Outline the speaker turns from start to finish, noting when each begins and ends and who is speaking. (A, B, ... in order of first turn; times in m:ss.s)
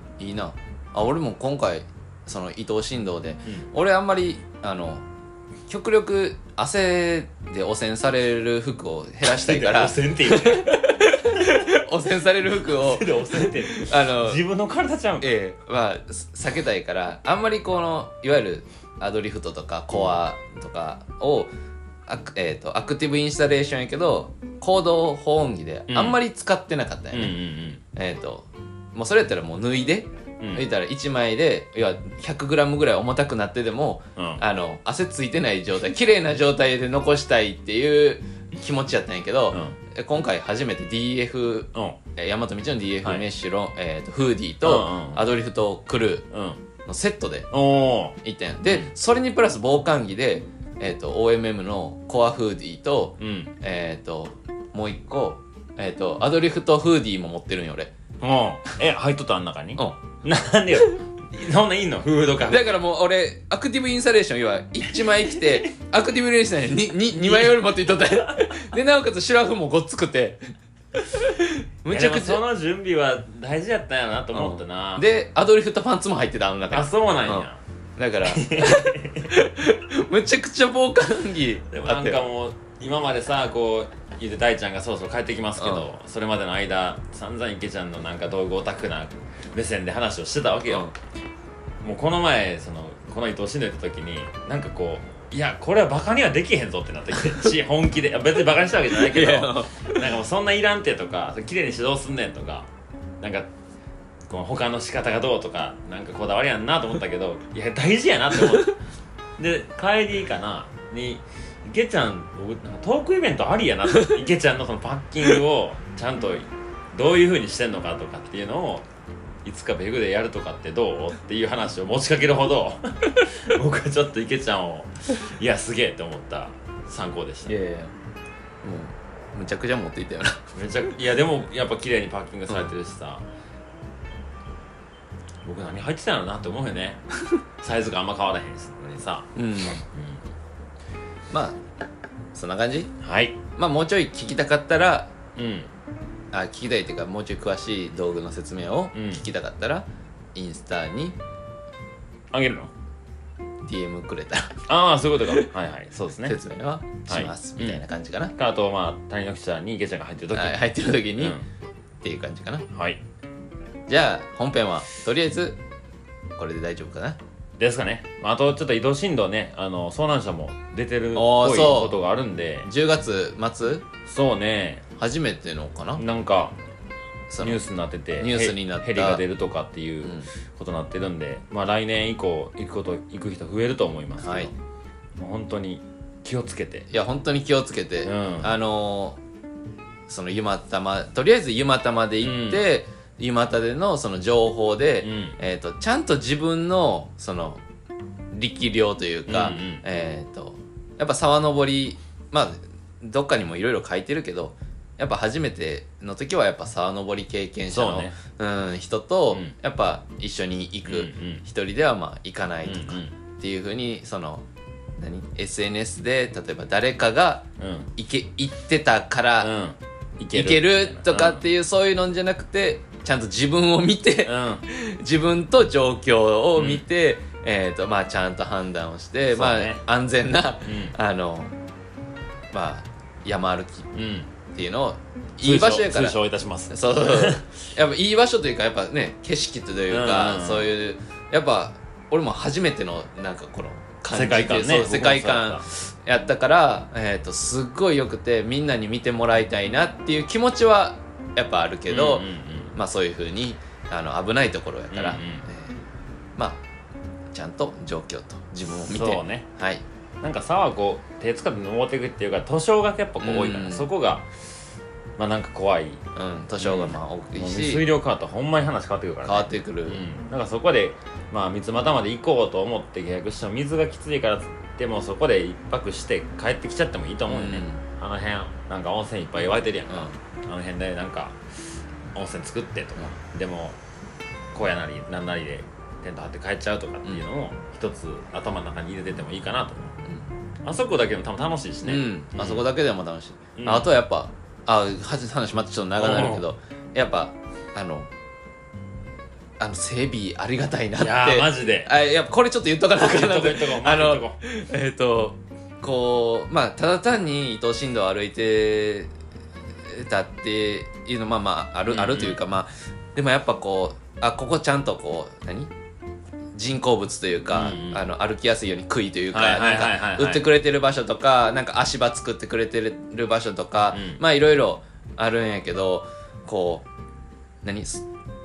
0:00.2-0:05.0 A
0:05.7-0:14.4 A
0:09.2-0:11.6 B
0:12.6-0:15.3 B
0:15.2-0:21.5 A
0:22.1-0:27.4 A
0:25.9-0:26.2 B
0:27.1-0:27.8 B
0:27.9-0:46.3 A
0:30.4-0:30.7 B
0:34.2-0:34.4 B
0:39.5-0:39.8 B
0:41.7-0:42.0 B
0:43.0-0:43.3 B
0:44.6-0:45.2 B
0:46.3-0:46.6 B
0:46.9-0:47.5 A
0:47.5-0:48.2 B
0:48.2-0:57.9 A
0:53.2-0:53.5 B
0:58.2-1:02.7 B
1:02.5-1:10.5 A
1:04.9-1:05.7 B
1:07.1-1:08.7 B
1:11.2-1:12.4 A
1:11.9-1:15.0 B
1:14.3-1:22.2 A
1:16.7-1:17.6 B
1:18.2-1:19.3 B
1:21.7-1:30.9 B
1:25.6-1:25.9 A
1:31.8-1:42.7 B
1:38.9-1:40.0 A
1:43.2-1:43.5 B
1:44.3-1:48.7 B
1:49.4-1:58.9 B
1:59.4-2:07.5 B
2:07.5-2:07.9 A
2:08.6-2:10.9 A
2:10.6-2:13.2 B
2:15.4-2:17.0 B
2:17.6-2:20.2 B
2:19.4-2:19.8 A
2:21.3-2:21.6 A
2:22.3-2:22.9 A
2:23.0-2:23.4 B
2:23.6-2:25.1 A
2:25.4-2:25.7 B
2:26.3-2:31.2 A
2:28.9-2:29.2 B
2:32.3-2:32.7 B
2:33.6-2:34.6 A
2:34.7-2:36.4 B
2:36.2-2:38.3 A
2:37.1-2:37.8 B
2:38.4-2:40.6 B
2:40.3-2:41.4 A
2:41.2-2:41.4 B
2:42.0-2:42.7 A
2:42.7-2:43.0 B
2:43.9-2:45.6 A
2:46.4-2:47.2 A
2:47.6-2:52.7 B
2:51.1-2:52.0 A
2:52.6-2:53.9 A
2:54.1-2:54.8 B
2:55.0-2:56.0 A
2:56.0-2:56.6 B
2:57.3-2:57.6 A
2:57.4-3:04.5 B
2:58.2-2:59.2 A
3:00.0-3:00.3 A
3:04.2-3:04.5 A
3:05.2-3:06.9 B
3:06.9-3:09.2 A
3:08.0-3:08.5 B
3:10.1-3:17.6 A
3:12.2-3:12.6 B
3:15.0-3:15.4 B
3:18.3-3:34.4 A
3:19.3-3:19.8 B
3:27.7-3:28.2 B
3:29.3-3:29.6 B
3:30.8-3:31.4 B
3:32.6-3:33.1 B
3:35.0-3:39.5 A
3:37.6-3:37.9 B
3:39.4-3:41.4 B
3:40.3-3:51.5 A
3:44.2-3:44.6 B
3:46.6-3:46.8 B
3:49.3-3:49.8 B
3:50.6-3:51.0 B
3:52.5-3:53.9 A
3:53.9-3:54.3 B
3:54.5-3:56.2 A
3:55.4-3:57.4 B
3:56.7-4:15.8 A
3:59.9-4:00.7 B
4:04.1-4:05.6 B
4:11.9-4:12.8 B
4:14.9-4:15.5 B
4:17.3-4:19.8 A
4:18.9-4:19.5 B
4:20.2-4:24.3 B
4:23.2-4:23.9 A
4:25.2-4:26.0 B
4:26.2-4:27.8 A
4:26.6-4:41.4 B
4:29.2-4:30.0 A
4:37.3-4:37.8 A
4:39.9-4:40.2 A
4:42.1-4:43.8 B
4:44.5-4:50.0 B
4:50.6-4:52.6 B
4:51.8-4:58.1 A
4:53.6-4:53.9 B
4:56.0-4:56.4 B
4:59.6-5:09.1 A
5:01.0-5:01.9 B
5:03.0-5:04.4 B
5:09.9-5:15.7 A
5:11.9-5:12.4 B
5:16.5-5:26.8 A
5:17.5-5:18.0 B
5:19.3-5:20.5 B
5:23.9-5:24.2 B
5:27.6-5:28.0 A